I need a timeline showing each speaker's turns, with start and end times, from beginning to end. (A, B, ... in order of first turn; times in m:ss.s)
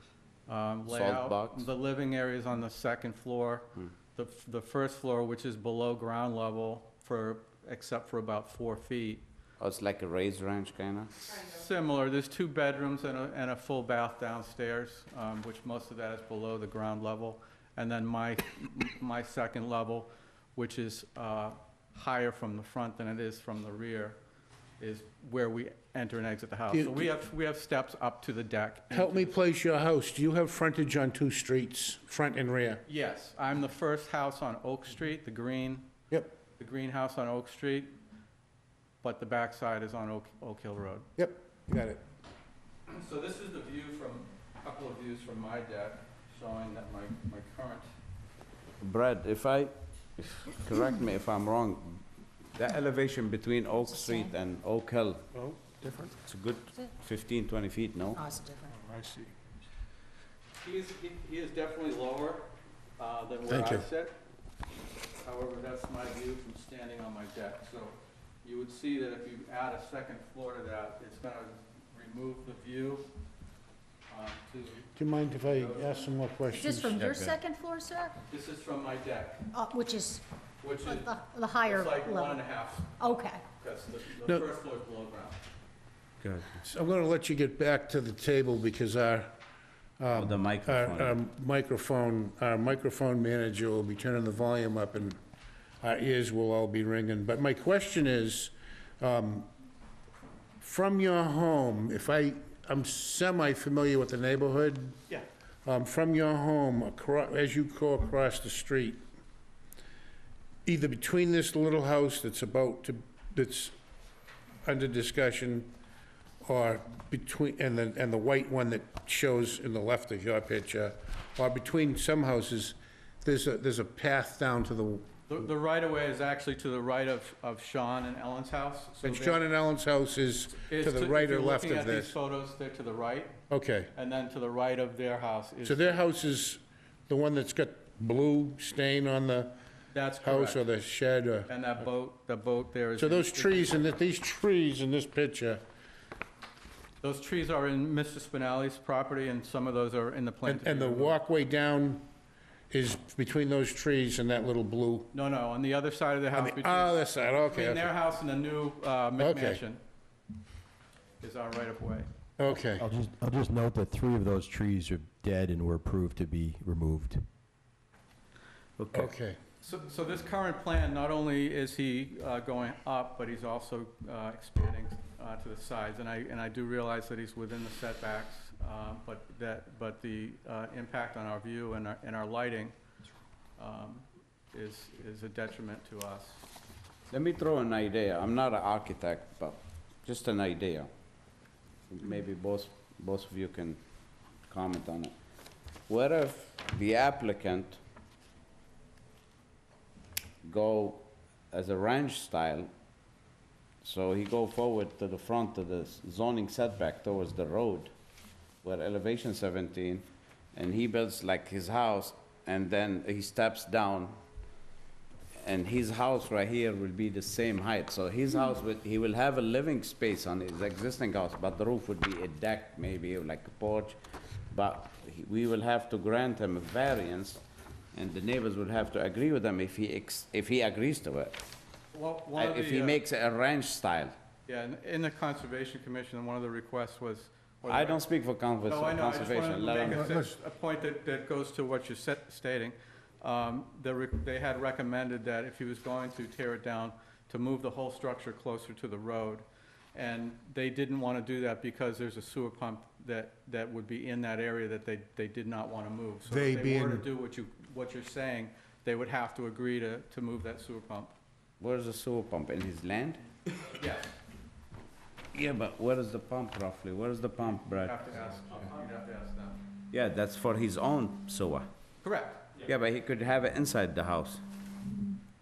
0:00.5-0:09.2 A
0:00.9-0:01.7 B
0:09.6-0:11.2 B
0:11.2-0:24.2 A
0:24.8-0:29.3 A
0:26.7-0:27.0 C
0:28.9-0:32.8 C
0:32.8-0:35.9 A
0:36.6-0:37.9 A
0:39.0-0:41.1 A
0:41.2-0:42.0 C
0:42.9-0:47.9 A
0:48.8-0:52.0 B
0:52.5-0:55.2 B
0:55.3-0:56.1 C
0:56.2-0:58.2 B
0:58.2-0:58.7 D
0:58.7-0:59.3 C
1:00.6-1:04.1 A
1:03.5-1:03.8 C
1:05.2-1:13.1 A
1:14.1-1:16.1 A
1:14.9-1:17.0 C
1:16.5-1:18.1 D
1:17.0-1:17.4 B
1:18.3-1:19.5 A
1:19.5-1:20.2 D
1:20.6-1:25.4 A
1:20.8-1:22.4 D
1:23.0-1:23.4 D
1:26.2-1:26.6 B
1:26.6-1:29.3 C
1:30.0-1:35.2 C
1:30.1-1:31.2 B
1:35.8-1:39.5 C
1:40.6-1:45.0 C
1:45.6-1:49.0 C
1:50.6-1:53.7 C
1:54.6-1:55.7 C
1:56.4-2:05.1 C
2:05.3-2:09.4 A
2:09.0-2:12.1 C
2:10.7-2:13.4 A
2:13.5-2:13.9 C
2:13.9-2:16.0 A
2:15.6-2:19.6 C
2:19.9-2:20.6 A
2:20.2-2:21.5 C
2:21.5-2:24.0 A
2:23.0-2:25.6 C
2:27.0-2:31.2 A
2:30.4-2:32.0 C
2:32.7-2:35.1 C
2:35.1-2:39.8 A
2:36.3-2:37.9 C
2:39.2-2:39.6 C
2:41.2-2:42.1 A
2:42.4-2:42.9 C
2:42.8-2:47.2 E
2:48.8-2:49.1 B
2:48.9-2:49.4 C
2:49.6-3:02.7 A
3:03.6-3:06.4 A
3:07.1-3:10.9 B
3:11.9-3:13.8 B
3:14.5-3:15.1 B
3:15.9-3:17.8 B
3:20.4-3:22.7 B
3:23.8-3:27.9 B
3:28.6-3:34.2 B
3:35.4-3:44.0 B
3:44.5-3:47.4 B
3:47.9-3:51.4 B
3:51.9-3:53.0 A
3:52.4-3:54.1 B
3:54.4-3:58.0 A
3:57.7-4:00.0 B
3:58.6-4:21.1 A
3:59.9-4:00.3 C
4:16.3-4:17.0 C
4:21.6-4:23.3 B
4:23.7-4:24.2 A
4:25.3-4:28.0 B
4:27.5-4:29.6 A
4:29.9-4:31.7 B
4:32.0-4:32.7 A
4:32.6-4:34.4 B